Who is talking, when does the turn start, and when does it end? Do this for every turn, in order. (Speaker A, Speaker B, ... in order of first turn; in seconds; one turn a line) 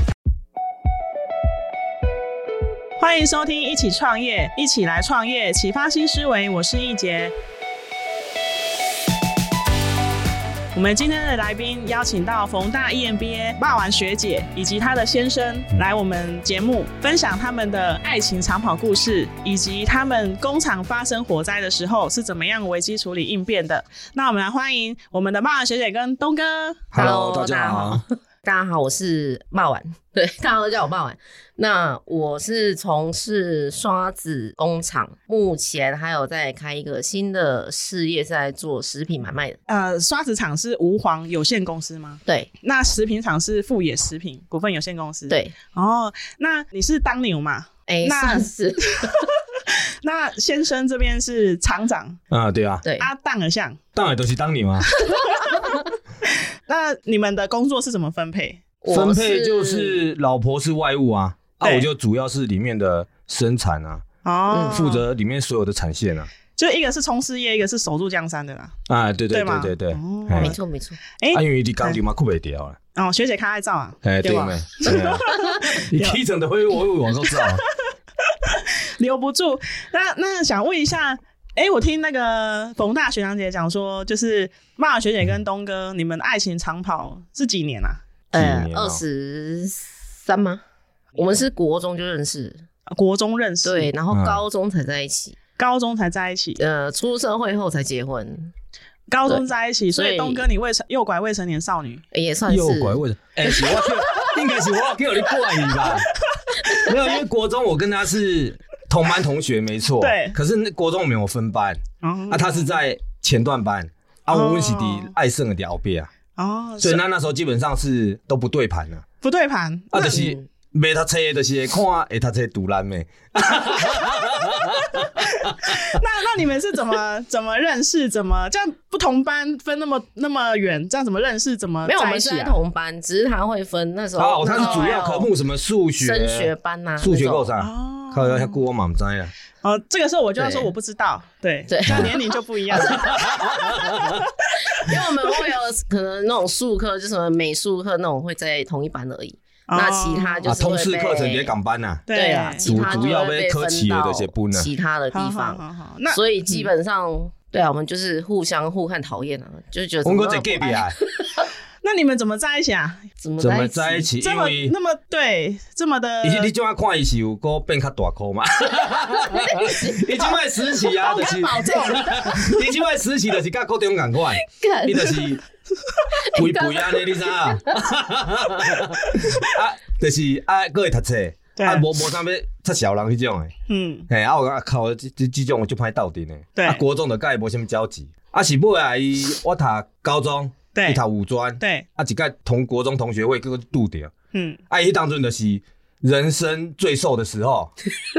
Speaker A: 3.0-7.3
Speaker A: 10.7-26.9
Speaker B: 26.9-28.0
Speaker C: 26.9-39.6
Speaker A: 39.7-48.5
Speaker C: 45.3-45.5
Speaker C: 47.9-49.3
Speaker A: 49.0-52.2
Speaker B: 52.3-52.8
Speaker A: 53.0-53.8
Speaker B: 54.0-54.9
Speaker C: 55.1-55.8
Speaker A: 56.7-58.6
Speaker C: 58.8-60.0
Speaker B: 58.9-64.0
Speaker A: 61.6-61.9
Speaker A: 64.2-65.0
Speaker C: 64.5-64.8
Speaker B: 64.7-66.3
Speaker A: 66.5-68.7
Speaker B: 68.9-70.5
Speaker A: 69.3-70.6
Speaker C: 70.4-71.0
Speaker A: 71.2-72.0
Speaker B: 71.3-72.8
Speaker A: 72.9-76.2
Speaker B: 74.0-77.6
Speaker C: 75.0-75.6
Speaker A: 77.3-77.6
Speaker A: 78.4-88.0
Speaker C: 88.3-90.6
Speaker B: 88.3-89.0
Speaker C: 91.1-92.6
Speaker A: 92.9-93.9
Speaker C: 93.6-95.4
Speaker B: 94.1-94.4
Speaker A: 95.6-96.6
Speaker C: 96.6-98.5
Speaker A: 99.1-102.0
Speaker C: 99.2-100.4
Speaker C: 102.1-104.2
Speaker B: 102.5-106.1
Speaker B: 106.8-116.1
Speaker A: 110.0-110.4
Speaker A: 112.0-112.7
Speaker A: 114.3-115.1
Speaker A: 116.3-117.0
Speaker B: 116.8-119.0
Speaker A: 119.2-120.3
Speaker B: 119.9-126.0
Speaker C: 120.1-120.5
Speaker A: 125.0-132.6
Speaker C: 131.8-135.3
Speaker B: 134.2-139.3
Speaker A: 134.4-135.2
Speaker C: 136.0-137.5
Speaker A: 137.6-138.6
Speaker A: 139.6-143.1
Speaker C: 140.4-140.7
Speaker C: 141.7-143.9
Speaker B: 143.0-144.2
Speaker C: 144.6-151.5
Speaker A: 149.7-150.4
Speaker B: 150.4-152.1
Speaker A: 152.1-153.1
Speaker C: 152.1-161.4
Speaker B: 152.6-154.7
Speaker A: 155.1-156.7
Speaker B: 160.0-160.9
Speaker A: 161.8-163.1
Speaker C: 163.2-164.1
Speaker B: 163.4-164.8
Speaker A: 164.2-166.5
Speaker B: 166.2-175.4
Speaker C: 169.1-170.3
Speaker A: 170.8-172.5
Speaker C: 174.4-175.2
Speaker C: 176.2-177.8
Speaker B: 176.3-183.5
Speaker A: 181.6-181.8
Speaker A: 183.7-184.1
Speaker B: 184.1-194.1
Speaker A: 186.6-186.8
Speaker A: 190.7-191.0
Speaker A: 191.6-191.9
Speaker A: 194.3-194.6
Speaker B: 194.7-197.7